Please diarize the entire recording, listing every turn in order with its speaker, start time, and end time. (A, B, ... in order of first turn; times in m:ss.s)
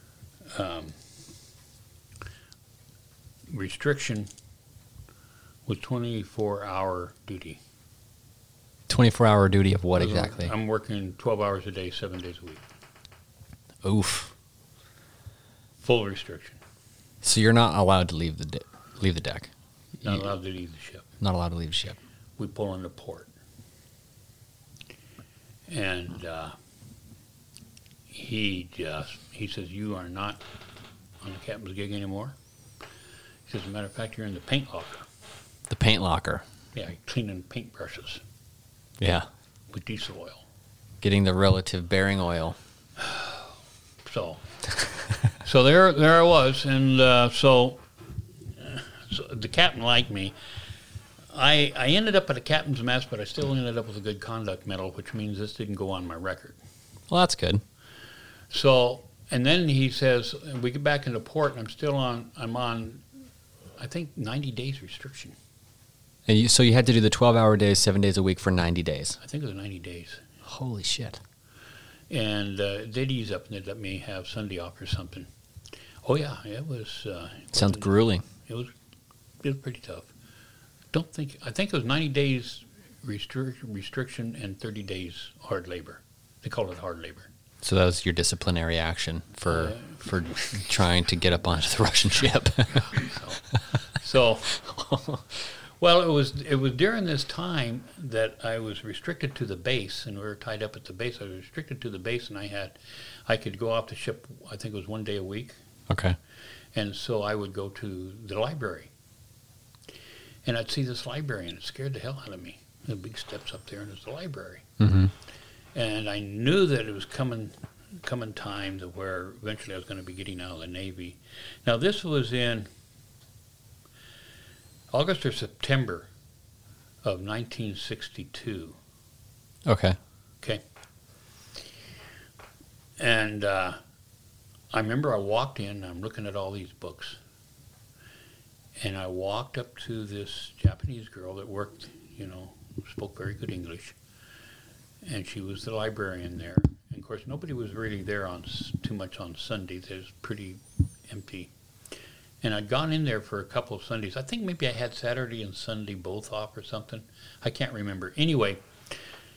0:00.5-0:01.0 A
0:03.5-0:04.3 A
0:05.6-0:07.6 A
0:08.9-0:10.5 B
0:10.0-0:12.6 A
0:13.8-0:14.3 B
0:15.8-0:16.6 A
0:17.2-0:19.5 B
0:20.0-0:21.1 A
0:20.0-0:20.3 B
0:21.2-0:22.0 B
0:22.4-0:23.3 A
0:25.7-0:26.5 A
0:28.1-0:30.4 A
0:31.2-0:32.3 A
0:33.5-0:35.1 A
0:35.7-0:36.4 B
0:36.7-0:38.2 A
0:39.0-0:39.3 B
0:39.7-0:40.4 A
0:41.0-0:42.6 B
0:43.0-0:43.4 A
0:44.0-0:44.4 A
0:45.4-0:47.8 A
0:48.6-0:50.3 A
0:51.3-0:56.6 A
0:57.1-0:57.6 B
0:58.5-1:03.0 A
1:03.8-1:05.3 A
1:06.3-1:09.2 B
1:09.2-1:10.2 A
1:10.4-1:11.2 B
1:12.1-1:15.3 A
1:16.0-1:18.7 A
1:17.5-1:18.2 B
1:19.4-1:20.1 A
1:20.9-1:27.3 A
1:27.6-1:32.9 B
1:29.5-1:30.5 A
1:32.7-1:34.6 A
1:34.5-1:35.2 B
1:35.8-1:45.6 A
1:45.9-1:46.2 B
1:46.7-1:48.9 A
1:50.4-1:54.6 A
1:54.8-1:55.1 B
1:55.7-2:02.7 A
2:04.9-2:06.1 A
2:07.0-2:08.8 A
2:09.6-2:10.0 B
2:13.0-2:13.8 A
2:14.7-2:17.2 A
2:18.8-2:24.0 A
2:25.0-2:31.5 A
2:32.4-2:38.9 A